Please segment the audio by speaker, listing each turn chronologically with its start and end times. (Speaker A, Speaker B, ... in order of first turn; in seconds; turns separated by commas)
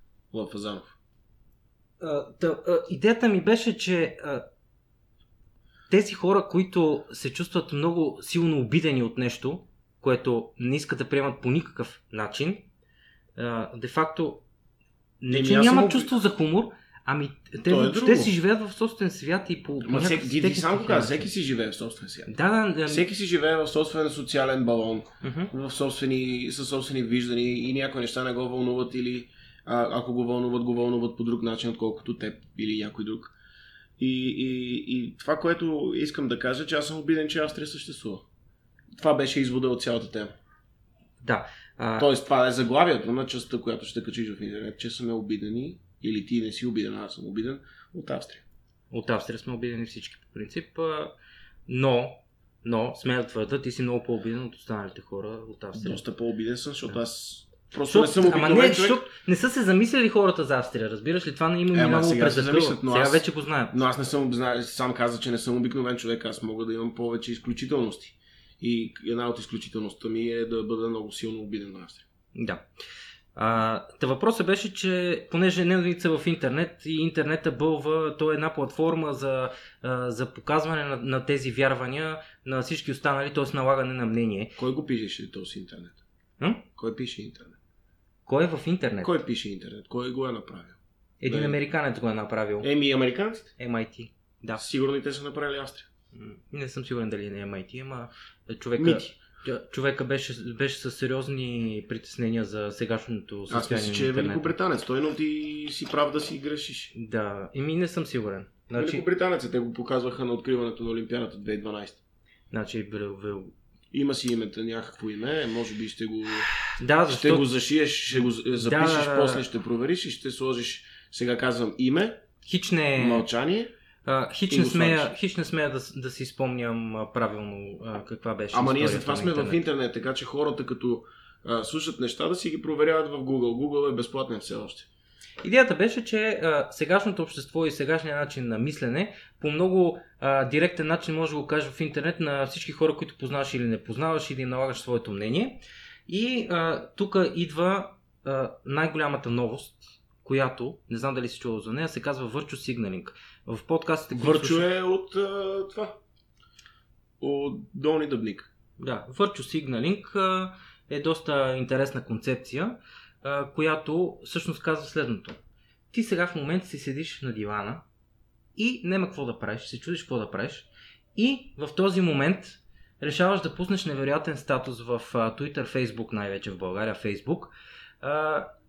Speaker A: 0.3-0.9, Speaker B: 2.0-4.5, Speaker B: 5.9-12.7, Speaker B: 13.3-14.4, Speaker B: 15.2-21.2, Speaker A: 15.3-16.1, Speaker A: 17.7-18.3, Speaker A: 19.8-22.3, Speaker B: 22.3-23.0, Speaker A: 22.9-33.3, Speaker B: 25.2-25.5, Speaker A: 34.0-38.2, Speaker A: 39.0-40.4, Speaker B: 41.2-42.1, Speaker A: 42.0-48.4, Speaker B: 48.9-51.1, Speaker B: 51.7-56.0, Speaker A: 55.7-59.0, Speaker B: 57.9-63.8, Speaker A: 61.7-72.0, Speaker B: 72.3-72.7, Speaker B: 73.3-84.6, Speaker A: 84.6-86.0, Speaker B: 86.4-86.6, Speaker A: 86.8-87.6, Speaker B: 88.2-89.2, Speaker A: 89.0-91.6, Speaker B: 91.2-92.7, Speaker A: 92.6-93.5, Speaker B: 93.6-94.6, Speaker A: 94.6-95.9, Speaker B: 96.1-104.5, Speaker A: 98.8-99.1, Speaker A: 103.5-106.9, Speaker B: 106.9-109.0, Speaker A: 108.8-112.0, Speaker B: 112.5-113.5, Speaker A: 113.9-116.5, Speaker B: 116.7-117.5, Speaker A: 117.1-122.2, Speaker B: 118.1-119.4, Speaker B: 122.4-123.3, Speaker A: 123.0-123.7, Speaker B: 124.0-129.6, Speaker A: 124.5-125.1, Speaker A: 128.5-134.9, Speaker B: 135.4-154.6, Speaker A: 154.1-156.0, Speaker A: 157.2-158.5, Speaker B: 158.8-165.4, Speaker B: 165.9-167.8, Speaker B: 168.6-178.5